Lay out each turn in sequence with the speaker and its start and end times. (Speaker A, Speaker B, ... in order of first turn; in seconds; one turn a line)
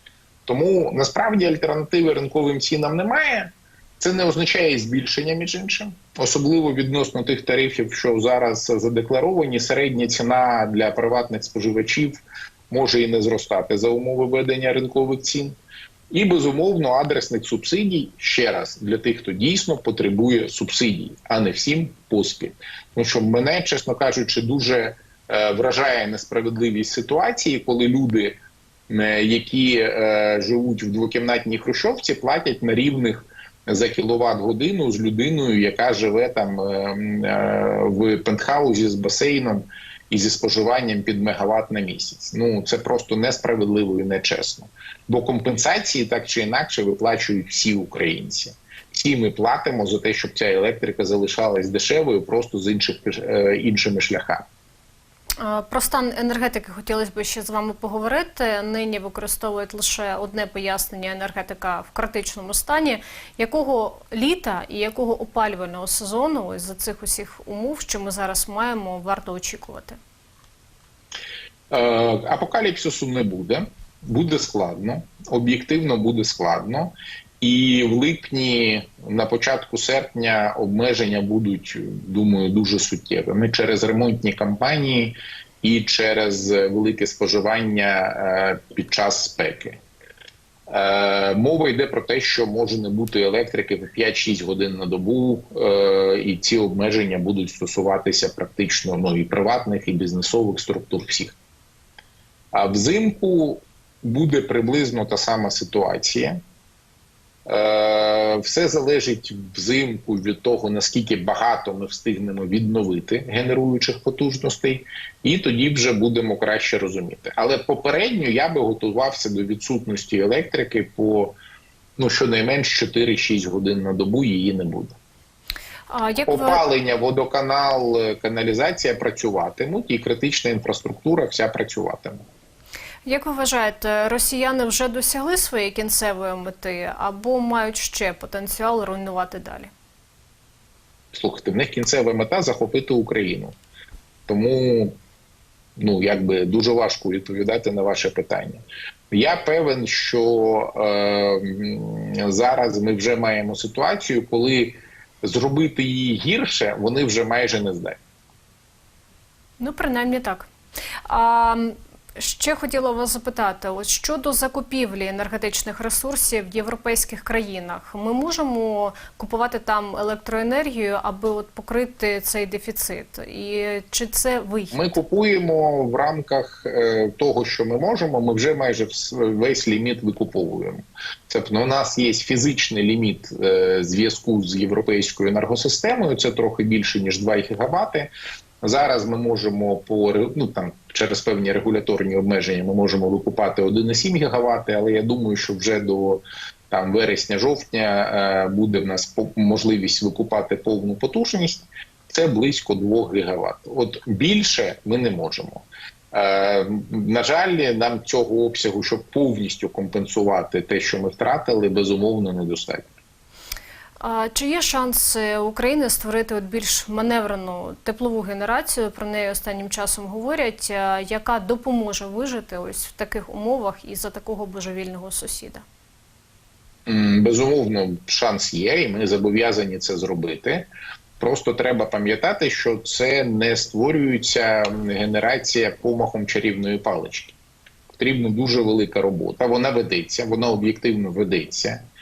Speaker A: 0.5-15.6
Speaker A: 16.1-28.4
Speaker A: 28.9-54.4
Speaker B: 55.4-70.0
Speaker A: 71.7-89.8
Speaker A: 90.7-101.4
Speaker A: 102.5-106.4
Speaker A: 107.5-121.3
Speaker A: 122.0-125.0
Speaker B: 125.9-126.6
Speaker A: 126.2-132.2
Speaker B: 133.0-139.7
Speaker A: 141.1-143.6
Speaker A: 144.3-145.0
Speaker A: 145.8-158.0
Speaker B: 159.6-160.5
Speaker B: 161.1-175.0
Speaker A: 174.7-212.9
Speaker B: 214.0-225.6
Speaker A: 226.9-237.4
Speaker A: 238.0-241.8